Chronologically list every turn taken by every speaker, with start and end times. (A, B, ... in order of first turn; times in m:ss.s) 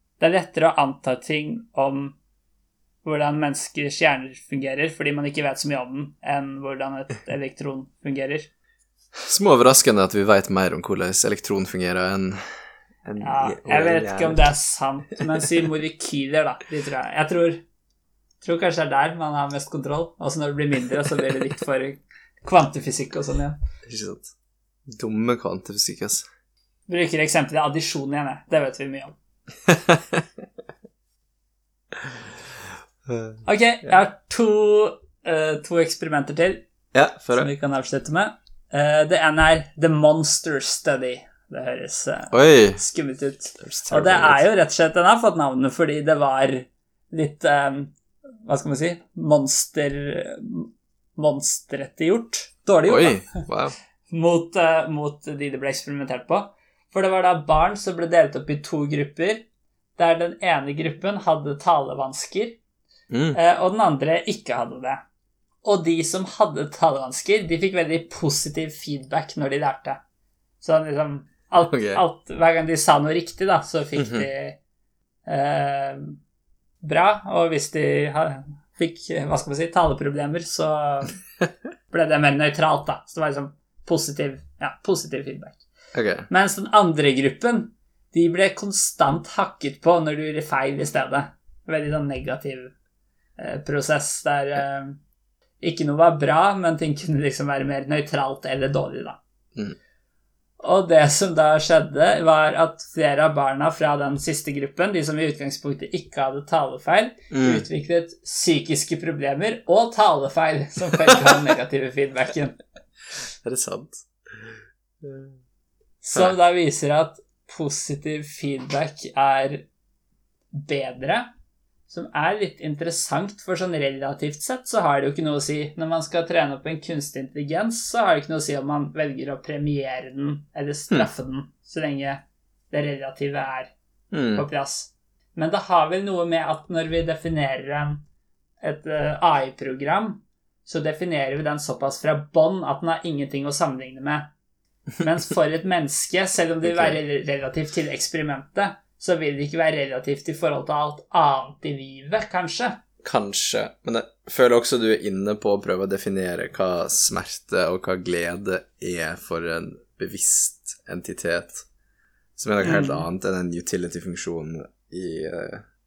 0:00.2-0:02.2 A
0:03.0-0:08.5 A
0:09.2-0:12.4 B
0:13.0-0:14.5 B
0:13.2-0:17.6 A
0:18.4-0:23.6 A
0:23.9-0:24.3 B
0:24.9-0:26.3 B
0:26.9-0:29.2 A
0:29.7-0:30.3 B
0:33.1-0:33.9 B
0:33.4-0:36.6 A
0:36.9-0:37.5 B
0:37.3-0:48.0 A
0:42.3-0:42.8 B
0:43.6-0:44.4 B
0:48.5-0:53.4 A
0:52.9-0:53.8 B
0:54.1-0:59.4 A
1:00.0-1:02.6 A
1:03.1-1:03.4 B
1:03.3-1:05.0 A
1:05.6-1:10.0 A
1:10.6-1:14.6 A
1:11.7-1:12.0 B
1:14.0-1:14.3 B
1:15.3-1:16.2 A
1:16.8-1:21.2 A
1:21.9-1:25.6 A
1:25.9-1:26.3 B
1:26.3-1:32.7 A
1:33.4-1:35.0 A
1:35.6-1:39.2 A
1:40.6-1:52.6 A
1:47.3-1:47.7 B
1:51.1-1:51.4 B
1:53.4-1:55.4 B
1:56.0-1:59.7 A
2:00.5-2:01.3 A
2:01.9-2:13.7 A
2:14.1-2:14.5 B
2:14.4-2:18.0 A
2:18.6-2:24.3 A
2:25.0-2:32.8 A
2:26.6-2:27.0 B
2:33.0-2:41.6 B
2:42.4-2:45.6 B
2:42.6-2:43.1 A